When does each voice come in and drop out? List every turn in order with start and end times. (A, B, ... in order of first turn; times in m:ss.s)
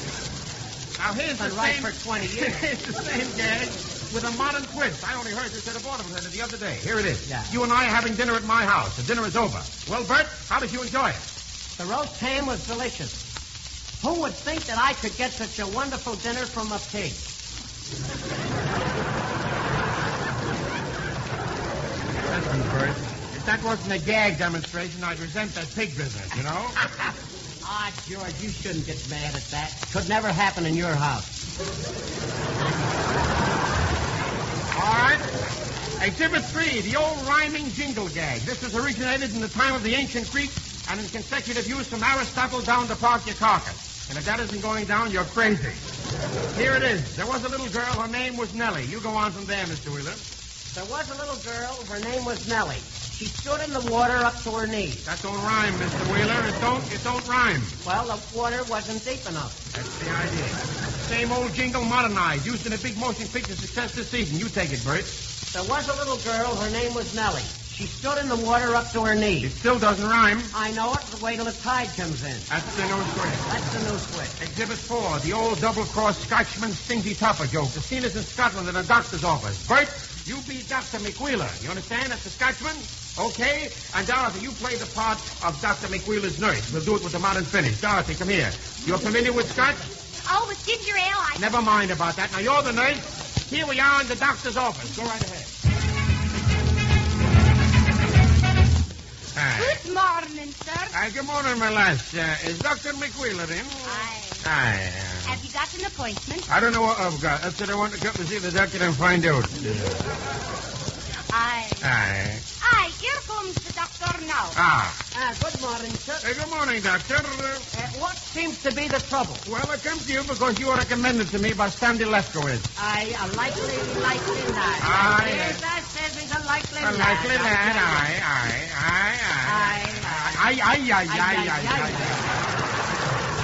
0:01.0-0:11.2 A
0:01.4-0:02.7 B
0:07.2-0:07.5 B
0:11.8-0:13.2 B
0:14.0-0:17.2 B
0:22.2-0:26.8 A
0:27.6-0:31.3 B
0:34.7-0:35.3 A
0:36.0-0:45.8 A
0:46.5-0:50.2 A
0:50.7-0:55.0 B
0:55.0-0:57.8 A
0:57.8-0:59.6 B
0:59.7-1:05.2 A
1:05.5-1:09.5 B
1:09.4-1:10.5 A
1:10.5-1:12.5 B
1:12.5-1:13.4 A
1:13.4-1:14.3 B
1:14.4-1:29.8 A
1:30.2-1:31.5 C
1:31.4-1:35.5 A
1:39.3-1:39.8 A
1:39.6-1:41.0 C
1:40.9-1:45.4 A
1:43.8-1:44.5 C
1:45.2-1:46.5 C
1:46.5-1:49.8 A
1:51.3-1:51.9 C
1:51.8-1:52.4 A
1:52.6-1:54.6 C
1:54.5-1:55.0 A
1:55.1-1:56.3 B
1:56.2-1:57.7 A
1:57.7-1:59.4 B
1:59.4-2:02.7 A
2:02.8-2:08.1 B
2:04.8-2:05.6 A
2:06.8-2:12.3 A
2:09.4-2:10.5 B
2:11.0-2:12.3 B